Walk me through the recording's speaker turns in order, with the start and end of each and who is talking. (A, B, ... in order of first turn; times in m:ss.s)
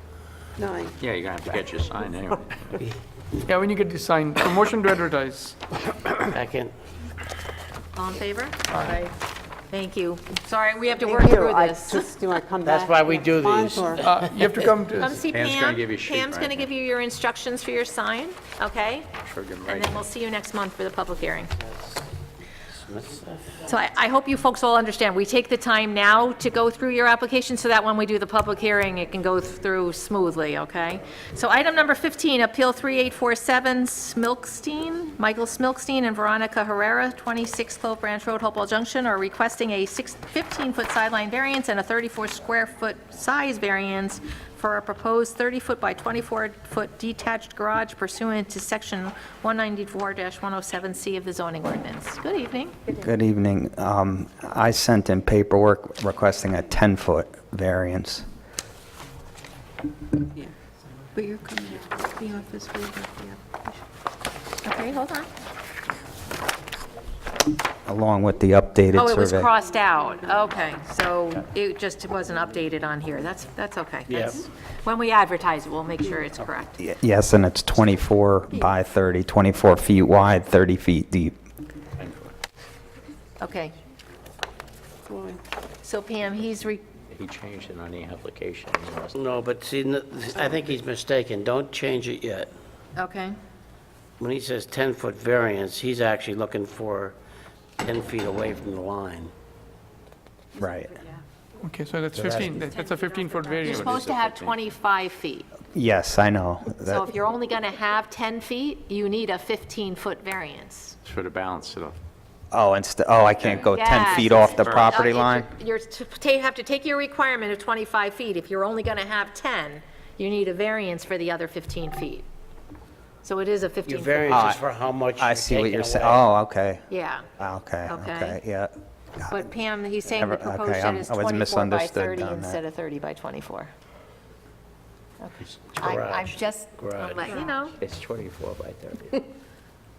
0:00.6-0:00.9 A
0:01.0-0:02.8 B
0:03.4-0:05.6 C
0:06.3-0:06.7 D
0:07.9-0:09.1 E
0:09.7-0:12.1 E
0:11.0-0:14.0 A
0:12.6-0:14.7 D
0:14.0-0:15.1 C
0:15.0-0:19.1 E
0:15.1-0:16.7 B
0:19.2-0:20.0 B
0:19.6-0:21.5 E
0:21.6-0:22.0 D
0:22.7-0:23.7 D
0:23.7-0:52.9 E
0:52.9-0:58.2 F
1:01.2-1:03.6 G
1:04.6-1:05.3 E
1:07.8-1:09.5 F
1:08.9-1:16.8 E
1:14.1-1:14.4 D
1:16.8-1:21.3 F
1:22.0-1:22.3 B
1:23.4-1:23.7 E
1:25.8-1:26.8 E
1:27.1-1:29.1 B
1:29.1-1:32.5 D
1:33.0-1:33.4 E
1:34.2-1:37.2 D
1:37.8-1:39.3 D
1:40.6-1:40.9 F
1:41.6-1:43.7 C
1:42.1-1:42.6 D
1:42.6-1:45.5 E
1:43.6-1:44.6 B
1:45.7-1:47.1 F
1:46.8-1:51.0 E
1:51.0-1:52.0 B
1:52.5-1:55.5 F
1:53.4-1:55.0 B
1:53.7-2:02.2 E
2:03.2-2:04.5 E
2:03.8-2:06.2 D
2:04.3-2:04.6 F
2:05.2-2:09.4 F
2:06.9-2:07.3 E
2:07.8-2:08.4 E
2:09.3-2:13.7 E
2:10.1-2:12.6 F
2:15.2-2:17.8 E
2:15.7-2:17.4 D
2:17.8-2:19.2 B